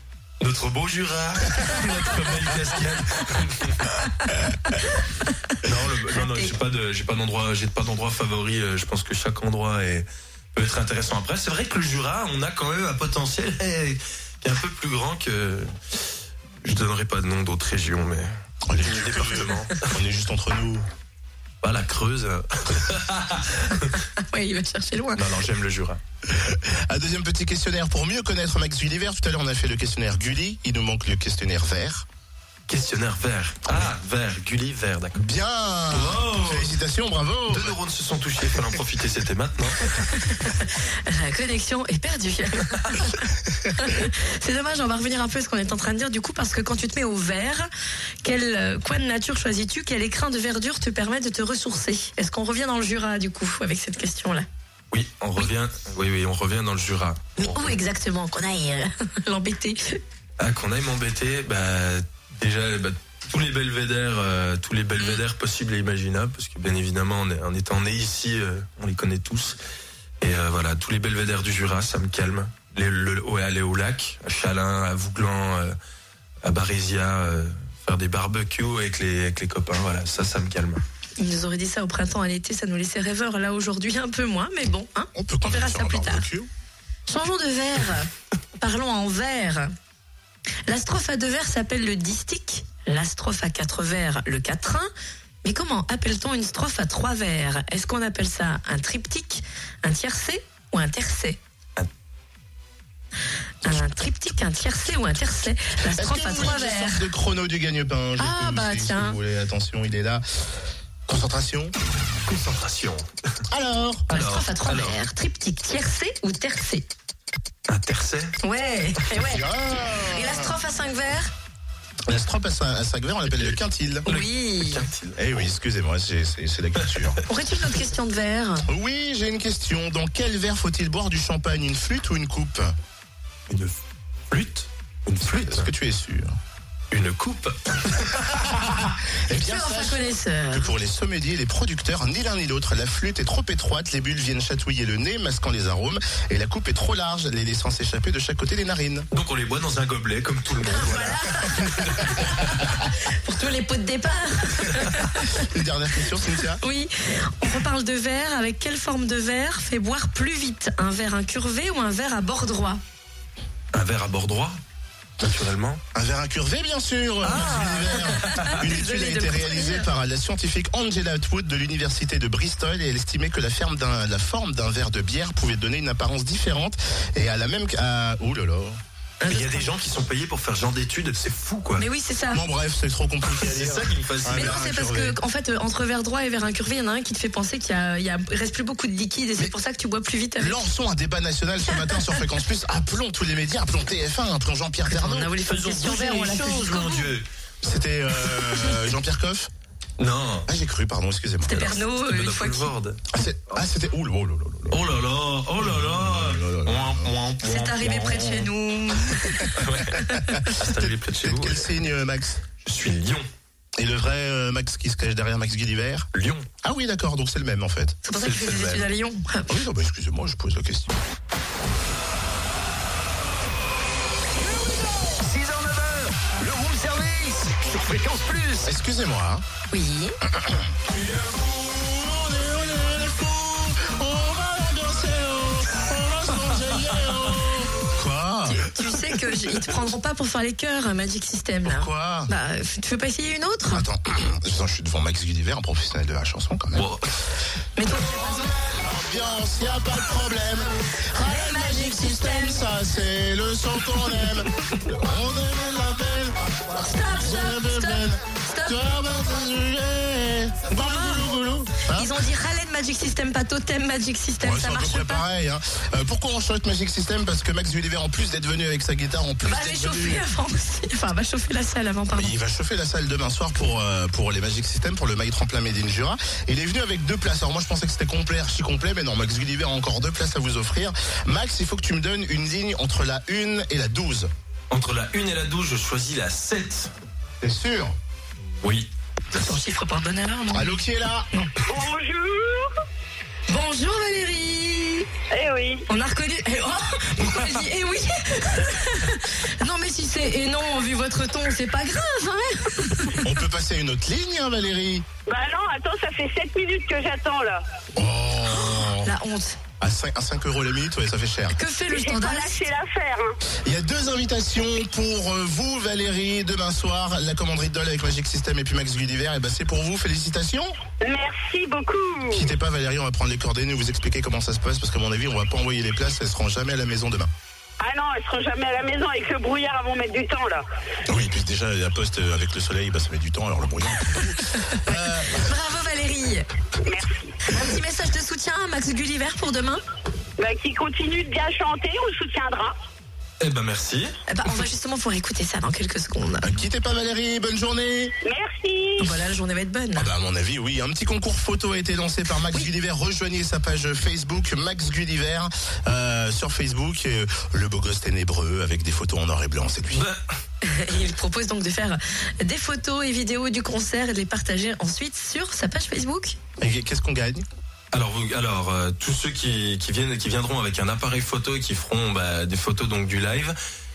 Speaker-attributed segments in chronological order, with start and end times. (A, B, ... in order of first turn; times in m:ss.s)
0:00.4-0:03.9 A
0:04.7-0:05.3 B
0:05.6-0:16.1 A
0:06.2-0:06.5 B
0:16.6-0:19.9 A
0:18.7-0:20.8 C
0:21.6-0:24.0 A
0:24.2-0:25.2 B
0:25.1-0:26.0 A
0:26.2-0:32.0 C
0:32.7-0:35.2 A
0:35.1-0:37.8 C
0:35.9-0:36.7 A
0:37.5-0:40.5 A
0:40.1-0:47.7 B
0:48.2-0:54.5 B
0:54.9-0:57.8 A
0:57.4-1:00.0 B
1:00.4-1:09.6 A
1:10.2-1:15.8 A
1:16.4-1:20.8 A
1:21.2-1:26.2 B
1:25.1-1:26.5 C
1:27.1-1:29.7 B
1:30.7-1:34.9 B
1:35.4-1:41.4 B
1:43.6-1:47.1 B
1:45.9-1:50.5 C
1:48.2-1:49.2 B
1:51.1-1:51.7 C
1:52.2-1:53.1 A
1:53.5-1:54.1 C
1:54.1-1:55.0 A
1:54.1-1:56.9 B
1:57.7-1:58.4 A
1:58.4-2:01.3 B
1:59.2-2:00.6 C
2:02.1-2:04.0 C
2:04.0-2:05.5 A
2:04.1-2:04.8 B
2:05.1-2:07.2 C
2:06.8-2:07.2 A
2:07.3-2:08.6 B
2:08.7-2:12.7 C
2:13.5-2:13.8 A
2:14.3-2:15.7 A
2:15.2-2:16.4 C
2:16.9-2:18.7 A
2:19.3-2:29.1 C
2:19.3-2:20.7 B
2:29.1-2:32.7 A
2:30.6-2:35.4 B
2:35.3-2:36.6 C
2:36.4-2:42.8 B
2:43.7-2:44.6 A
2:45.2-2:45.8 A
2:45.9-2:58.8 C
2:47.2-2:48.6 A
2:47.2-2:49.9 B
2:59.2-2:59.6 B
2:59.3-3:01.8 A
3:01.8-3:02.4 B
3:02.3-3:05.2 C
3:03.3-3:04.6 A
3:04.3-3:10.6 B
3:10.4-3:15.3 C
3:11.8-3:12.1 B
3:14.9-3:17.1 B
3:15.4-3:17.2 A
3:17.6-3:19.5 C
3:20.0-3:20.5 A
3:20.5-3:21.7 C
3:21.4-3:22.7 B
3:21.5-3:23.6 A
3:23.1-3:24.9 C
3:24.7-3:28.5 A
3:25.6-3:27.1 C
3:27.4-3:30.5 B
3:29.0-3:31.7 A
3:30.3-3:32.4 C
3:32.6-3:33.3 A
3:33.8-3:36.1 C
3:36.1-3:36.5 A
3:36.6-3:38.0 C
3:38.0-3:39.6 B
3:38.1-3:38.9 A
3:39.5-3:41.0 C
3:44.3-3:48.7 D
3:48.6-3:49.4 C
3:49.7-3:50.2 B
3:50.4-3:50.7 C
3:51.4-3:58.9 C
3:58.4-4:03.8 B
4:01.6-4:02.3 C
4:03.7-4:06.9 C
4:06.7-4:07.0 A
4:07.8-4:08.6 B
4:08.1-4:22.2 C
4:11.2-4:12.7 B
4:16.7-4:18.9 B
4:20.7-4:21.3 B
4:21.9-4:25.2 B
4:24.4-4:30.2 C
4:29.4-4:32.3 B
4:32.1-4:44.3 C
4:44.7-4:46.9 A
4:47.4-4:48.0 C
4:48.4-4:48.9 A
4:49.3-4:51.5 B
4:50.5-4:51.3 C
4:51.7-4:52.7 E
4:53.5-4:55.1 B
4:55.3-4:55.8 E
4:55.9-5:03.3 B
5:03.2-5:05.0 C
5:05.3-5:07.6 E
5:07.9-5:09.1 C
5:08.4-5:09.6 B
5:09.8-5:11.6 C
5:11.5-5:12.6 B
5:11.9-5:13.3 E
5:13.6-5:20.7 C
5:21.0-5:22.4 E
5:22.3-5:27.3 C
5:27.8-5:30.6 E
5:31.1-5:35.5 C
5:34.7-5:36.5 B
5:36.8-5:37.2 E
5:37.4-5:39.8 B
5:40.4-5:42.7 E
5:43.4-5:44.1 A
5:44.3-5:46.5 B
5:46.4-5:48.1 C
5:48.2-5:49.2 E
5:49.0-5:50.1 B
5:50.0-6:00.1 C
5:59.9-6:00.2 A
6:00.6-6:06.4 B
6:06.6-6:07.4 C
6:07.9-6:13.6 A